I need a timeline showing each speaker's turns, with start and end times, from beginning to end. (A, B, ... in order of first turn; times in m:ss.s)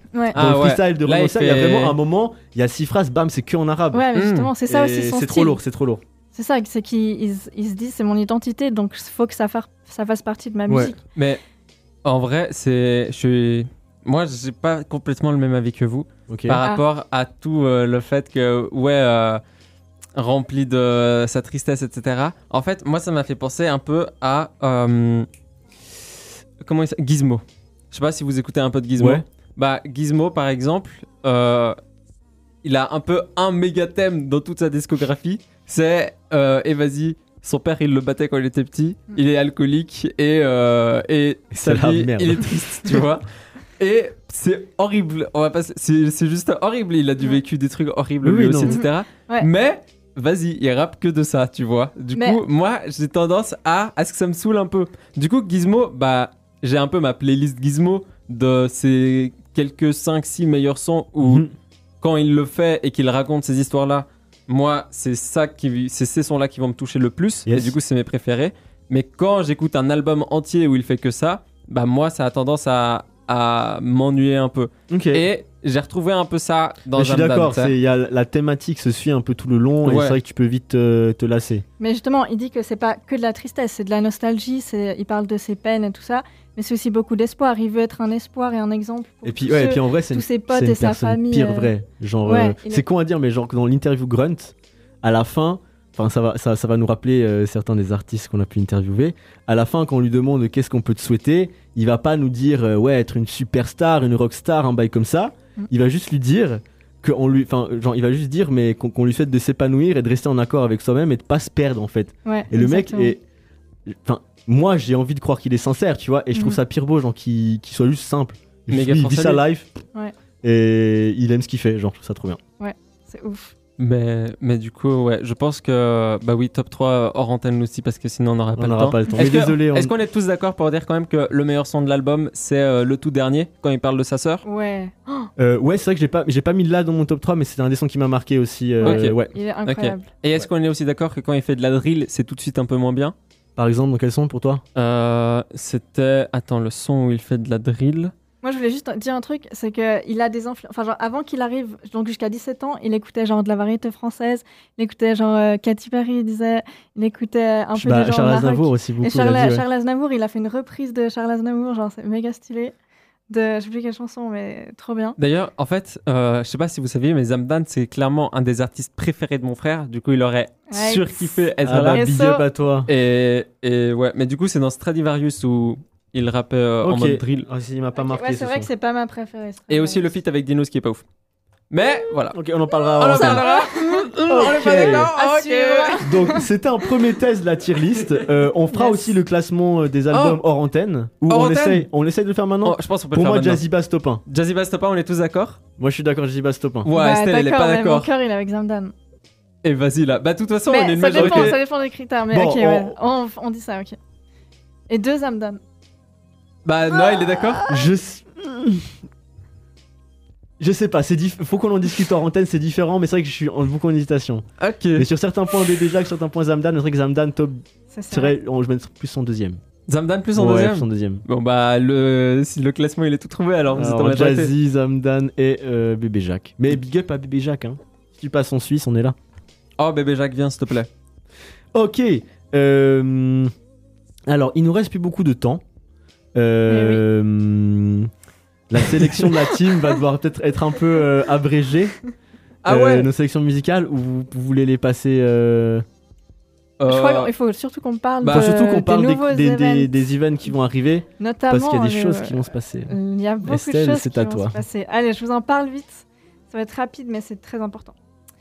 0:00.3-0:02.0 A
0:00.3-0:04.1 B
0:03.9-0:05.6 C
0:04.2-0:04.5 A
0:04.6-0:06.0 B
0:06.3-0:11.0 C
0:10.7-0:10.9 B
0:11.2-0:11.4 A
0:12.0-0:19.4 A
0:16.3-0:16.6 B
0:20.2-0:25.3 A
0:26.6-0:31.8 A
0:29.0-0:29.2 B
0:32.6-0:43.2 A
0:41.5-0:43.0 B
0:43.8-1:01.4 A
0:48.2-0:48.8 B
0:48.7-0:49.5 C
0:52.2-0:52.4 C
1:01.2-1:01.5 B
1:02.0-1:17.8 A
1:07.5-1:07.7 B
1:14.9-1:15.3 B
1:16.9-1:21.6 B
1:19.8-1:20.2 A
1:21.8-1:31.7 C
1:29.2-1:53.2 B
1:32.2-1:32.8 C
1:52.3-1:53.2 C
1:53.9-1:59.8 B
1:56.3-1:56.6 C
1:58.7-1:59.4 A
2:00.4-2:02.4 B
2:02.6-2:03.5 C
2:03.8-2:14.4 A
2:08.6-2:09.9 B
2:14.4-2:15.3 C
2:15.4-2:19.3 B
2:18.8-2:20.1 C
2:18.8-2:19.2 A
2:19.7-2:23.2 A
2:23.6-2:24.6 B
2:24.8-2:28.1 A
2:28.4-2:42.7 C
2:37.8-2:39.6 B
2:43.3-2:45.2 C
2:45.2-2:52.1 A
2:50.7-2:52.4 C
2:51.6-2:52.9 B
2:52.9-2:57.5 A
2:56.8-2:58.7 B
2:58.0-3:00.2 C
2:59.7-3:01.0 A
3:01.7-3:02.4 A
3:02.3-3:03.5 B
3:03.0-3:06.1 A
3:03.0-3:06.5 C
3:04.3-3:05.1 B
3:06.0-3:14.2 B
3:08.7-3:09.2 C
3:10.1-3:10.4 A
3:11.3-3:11.9 A
3:12.6-3:13.6 A
3:14.3-3:15.6 A
3:15.8-3:16.9 B
3:16.8-3:18.1 A
3:16.9-3:18.9 C
3:19.6-3:21.6 A
3:20.7-3:24.0 C
3:21.2-3:21.6 B
3:22.3-3:23.0 B
3:24.9-3:25.6 C
3:26.6-3:27.7 A
3:27.0-3:27.8 C
3:27.7-3:28.9 B
3:30.6-3:34.4 B
3:34.6-3:35.1 A
3:35.0-3:39.6 B
3:37.9-3:38.3 C
3:39.9-3:44.5 A
3:40.4-3:41.2 B
3:43.7-3:49.2 B
3:49.8-3:50.9 A
3:51.7-3:53.5 B
3:54.3-3:55.6 B
3:56.4-3:58.1 B
3:56.7-3:57.0 C
3:58.7-4:02.0 B
4:02.6-4:03.1 A
4:02.7-4:05.8 B
4:06.8-4:07.3 A
4:06.9-4:10.0 C
4:08.2-4:08.5 A
4:08.3-4:14.6 B
4:11.2-4:18.0 C